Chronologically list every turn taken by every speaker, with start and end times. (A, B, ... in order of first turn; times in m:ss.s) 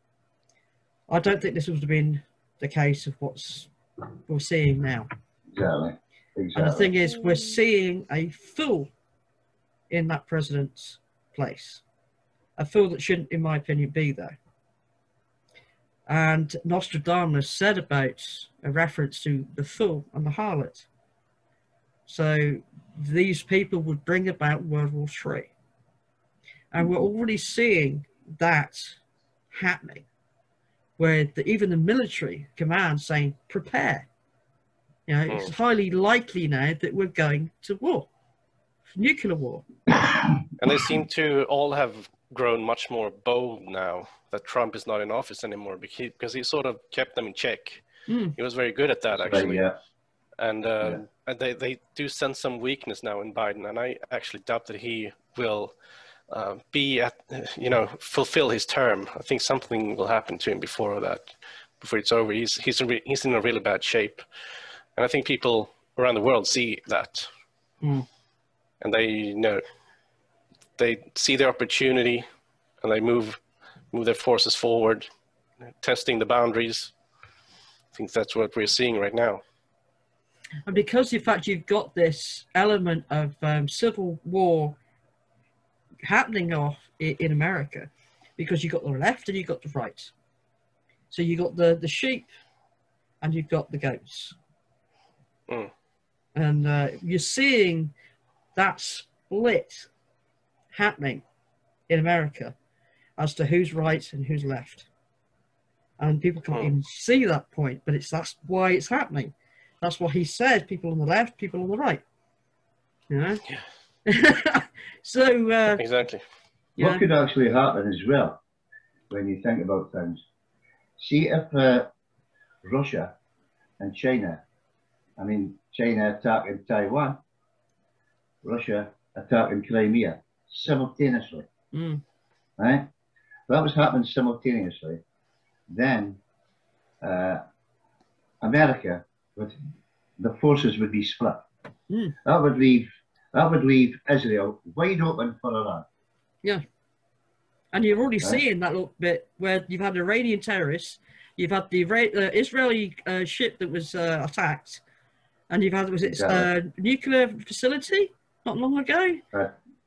0:01.1-0:03.7 A
0:04.3-0:05.1 A
0:05.5-0:06.9 B
0:06.5-0:08.9 A
0:09.9-0:11.8 A
0:12.6-0:14.4 A
0:16.1-0:20.9 A
0:22.0-0:25.5 A
0:26.7-0:29.0 A
0:29.5-0:30.0 A
0:31.0-0:34.1 A
0:35.1-0:38.1 A
0:38.9-0:39.7 A
0:40.6-0:49.6 C
0:48.1-0:48.3 A
0:49.2-0:49.7 B
0:50.4-0:55.7 C
0:56.3-1:04.2 C
1:05.0-1:07.3 C
1:08.8-1:09.6 C
1:10.8-1:12.2 C
1:12.8-1:13.4 C
1:13.9-1:15.1 C
1:15.6-1:16.9 C
1:17.9-1:19.4 C
1:20.7-1:24.8 A
1:26.0-1:30.1 A
1:31.1-1:32.3 A
1:33.2-1:34.3 A
1:36.3-1:37.9 A
1:38.6-1:39.9 A
1:40.7-1:41.2 A
1:41.9-1:42.6 A
1:43.2-1:44.9 A
1:46.0-1:52.0 A
1:53.1-1:53.4 A
1:54.0-1:55.8 A
1:55.7-1:56.2 C
1:56.8-1:57.0 A
1:56.8-1:58.4 B
1:59.1-2:00.2 B
2:01.0-2:01.9 B
2:02.6-2:03.1 B
2:03.8-2:04.4 B
2:05.2-2:07.2 B
2:08.4-2:11.5 B
2:11.7-2:12.0 A
2:12.6-2:12.9 B
2:13.5-2:15.0 B
2:15.7-2:16.2 B
2:17.0-2:17.4 B
2:18.4-2:19.6 B
2:20.2-2:21.4 B
2:21.9-2:22.1 A
2:22.2-2:25.8 B
2:27.7-2:34.8 A
2:35.5-2:39.2 A
2:36.0-2:36.5 B